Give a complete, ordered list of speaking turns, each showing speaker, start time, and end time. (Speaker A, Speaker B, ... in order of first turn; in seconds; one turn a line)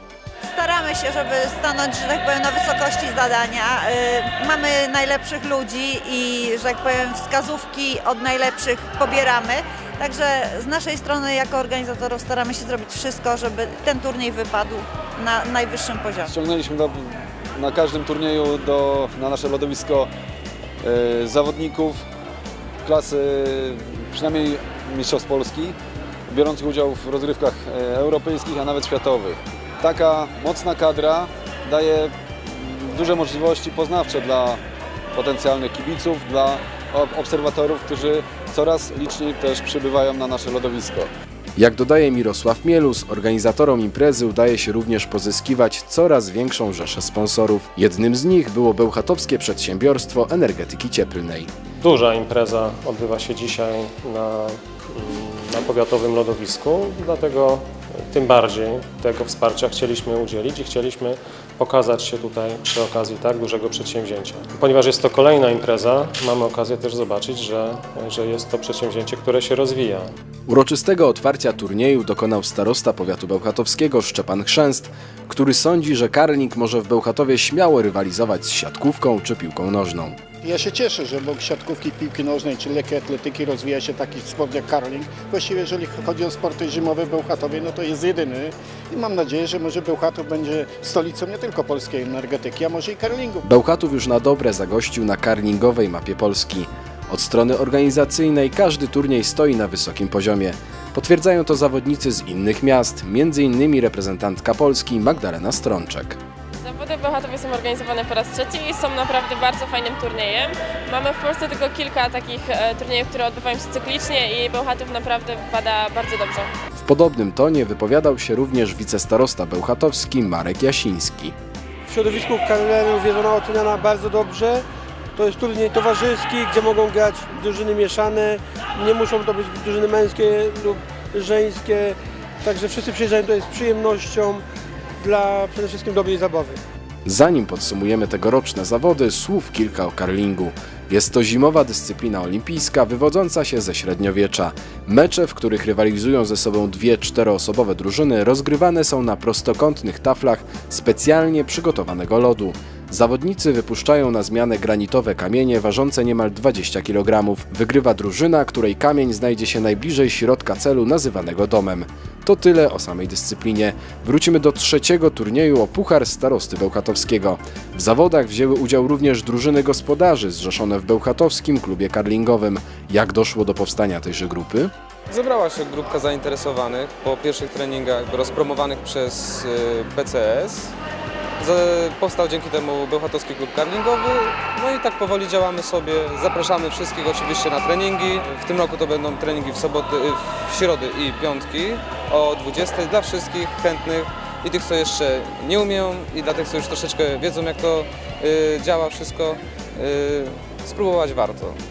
Speaker A: 0.5-16.3
Speaker B: 16.3-20.1
Speaker B: 20.8-22.0
Speaker B: 22.9-25.8
Speaker B: 26.3-34.6
Speaker B: 35.1-41.1
Speaker C: 41.6-51.5
Speaker D: 51.8-70.1
Speaker C: 70.5-80.2
Speaker E: 80.4-93.4
Speaker C: 93.5-106.2
Speaker F: 106.6-116.5
Speaker C: 116.8-121.3
Speaker G: 121.9-134.4
Speaker G: 135.0-136.6
Speaker C: 137.1-174.7
Speaker H: 175.1-180.7
Speaker H: 181.4-201.6